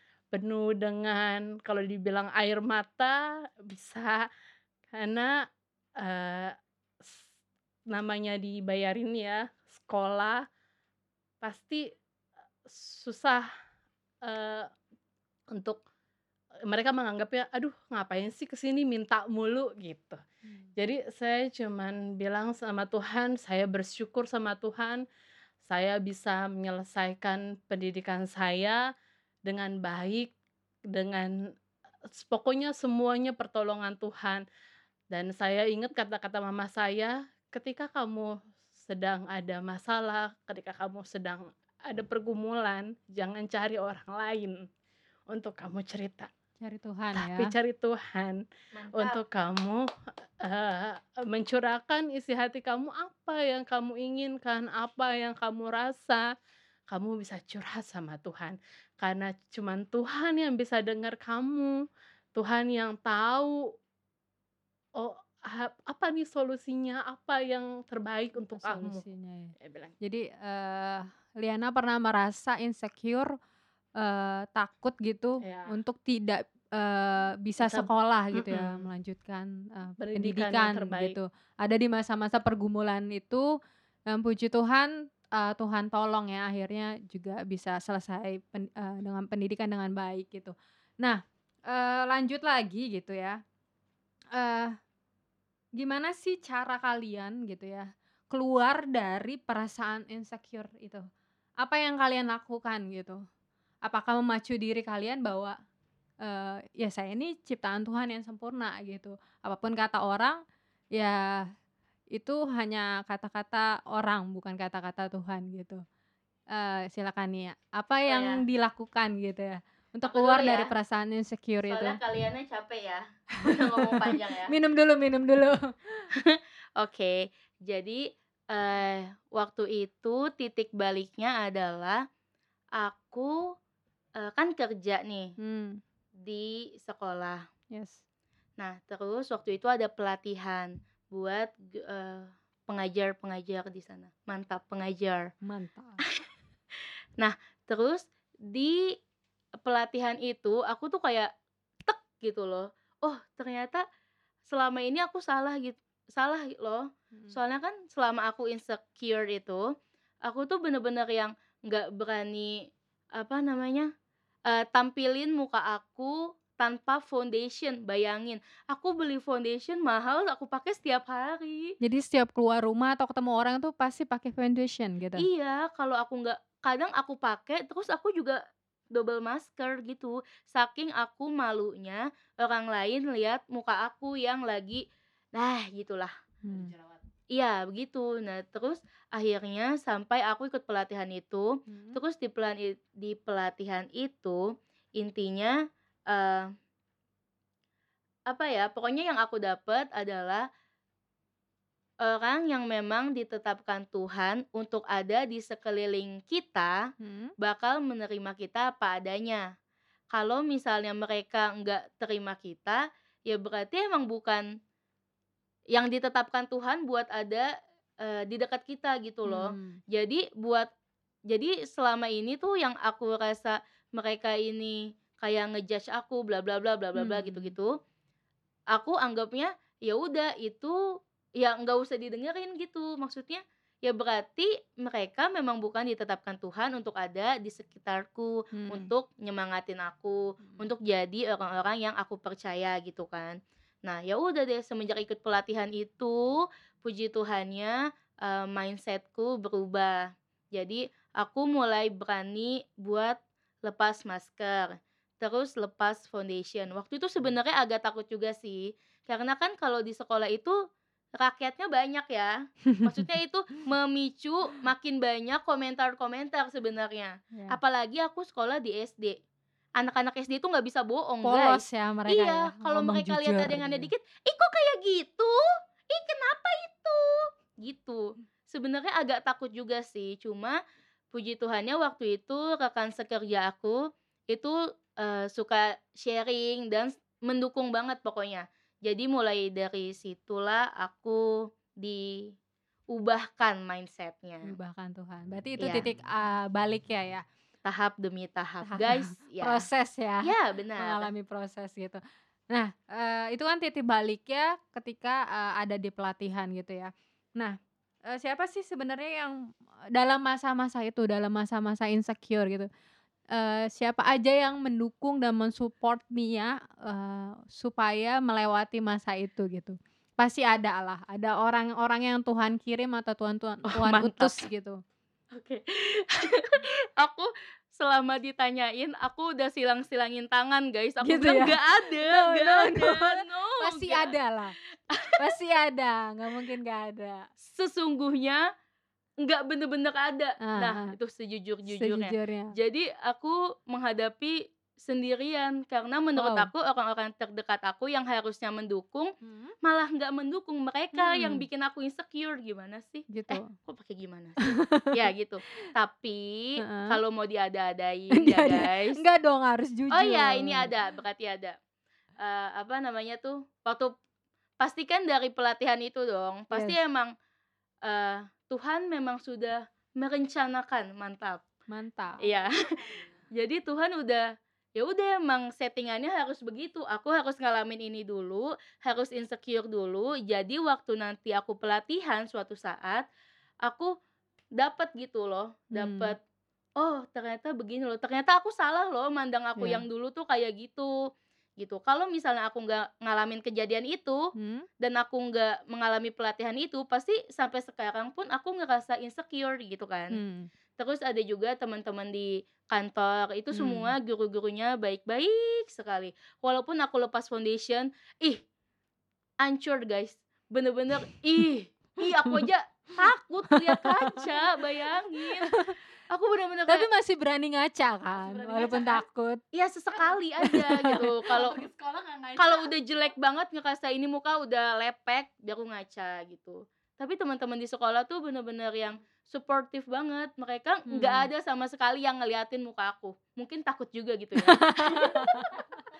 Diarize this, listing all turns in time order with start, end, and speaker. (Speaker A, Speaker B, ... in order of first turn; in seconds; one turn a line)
Speaker A: 0.3-4.3
Speaker A: 4.9-5.4
Speaker A: 6.0-7.3
Speaker A: 7.9-10.5
Speaker A: 11.4-11.9
Speaker A: 12.6-13.5
Speaker A: 14.2-14.7
Speaker A: 15.5-15.8
Speaker A: 16.7-20.2
Speaker A: 20.8-25.0
Speaker A: 25.6-28.8
Speaker A: 29.4-30.3
Speaker A: 30.9-31.4
Speaker A: 32.1-34.4
Speaker A: 35.1-44.7
Speaker A: 45.3-46.3
Speaker B: 46.6-47.5
Speaker A: 47.1-48.4
Speaker C: 48.8-49.2
Speaker A: 48.9-49.8
Speaker A: 50.4-56.2
Speaker A: 56.9-61.8
Speaker A: 62.3-63.7
Speaker A: 65.0-69.0
Speaker B: 68.4-73.3
Speaker A: 69.6-69.9
Speaker B: 74.0-83.5
Speaker A: 75.4-75.7
Speaker A: 77.6-78.8
Speaker A: 80.0-81.2
Speaker B: 84.1-93.4
Speaker B: 94.3-94.8
Speaker B: 95.8-101.0
Speaker B: 101.6-103.2
Speaker B: 103.8-105.6
Speaker B: 106.2-110.4
Speaker B: 111.0-111.4
Speaker B: 112.1-115.8
Speaker B: 116.5-122.0
Speaker C: 118.1-118.4
Speaker C: 120.1-120.7
Speaker C: 121.6-124.5
Speaker B: 123.4-126.1
Speaker C: 126.1-132.1
Speaker C: 132.7-133.4
Speaker C: 134.2-135.3
Speaker B: 135.4-135.8
Speaker C: 136.2-137.5
Speaker B: 137.7-138.0
Speaker C: 138.6-145.3
Speaker B: 145.4-146.0
Speaker C: 147.2-148.9
Speaker C: 149.6-151.3
Speaker C: 151.8-153.8
Speaker C: 154.5-163.9
Speaker C: 164.4-171.8
Speaker B: 171.8-175.2
Speaker C: 175.2-186.1
Speaker B: 186.4-186.7
Speaker A: 186.5-187.0
Speaker C: 187.3-196.5
Speaker B: 191.7-192.0
Speaker C: 198.3-200.5
Speaker C: 202.0-206.9
Speaker B: 207.0-207.3
Speaker C: 207.4-209.4
Speaker C: 210.1-214.4
Speaker C: 215.7-220.7
Speaker B: 219.2-219.8
Speaker C: 221.3-227.8
Speaker B: 226.9-227.5
Speaker C: 228.7-230.8
Speaker C: 231.4-260.6
Speaker B: 238.5-238.9
Speaker C: 261.2-269.2
Speaker C: 269.8-280.6
Speaker B: 271.2-273.9
Speaker C: 281.1-292.3
Speaker C: 292.9-294.5
Speaker B: 294.4-297.2
Speaker C: 295.6-295.9
Speaker C: 297.6-299.7
Speaker B: 298.6-307.6
Speaker C: 300.2-301.1
Speaker B: 308.1-309.4
Speaker B: 309.9-312.7
Speaker B: 313.3-324.8
Speaker C: 323.7-324.4
Speaker C: 325.3-334.1
Speaker B: 331.0-334.5
Speaker C: 334.9-335.2
Speaker B: 335.2-337.2
Speaker C: 337.4-338.4
Speaker C: 339.2-359.0
Speaker B: 340.4-340.9
Speaker B: 341.7-342.5
Speaker B: 346.2-346.5
Speaker B: 349.2-349.5
Speaker B: 350.9-351.4
Speaker B: 353.1-353.5
Speaker B: 354.5-354.9
Speaker B: 356.6-357.0
Speaker B: 358.1-360.7
Speaker C: 359.9-361.6
Speaker C: 362.2-363.9
Speaker C: 364.6-367.1
Speaker B: 366.5-366.8
Speaker C: 367.8-371.4
Speaker B: 371.7-372.2
Speaker C: 372.2-372.5
Speaker C: 373.4-383.0
Speaker C: 383.6-383.9
Speaker C: 384.6-386.2
Speaker B: 385.7-386.1
Speaker C: 386.8-391.0
Speaker B: 389.6-389.8
Speaker C: 391.6-400.2
Speaker B: 394.4-394.6
Speaker B: 400.1-400.5
Speaker C: 400.8-408.4
Speaker B: 403.5-403.9
Speaker C: 409.4-416.9
Speaker B: 413.5-414.2
Speaker B: 415.2-415.7
Speaker B: 416.7-419.4
Speaker A: 418.1-419.0
Speaker C: 419.5-421.6
Speaker B: 420.4-421.1
Speaker A: 421.3-422.7
Speaker C: 422.4-435.6
Speaker B: 430.9-431.3
Speaker B: 434.4-435.6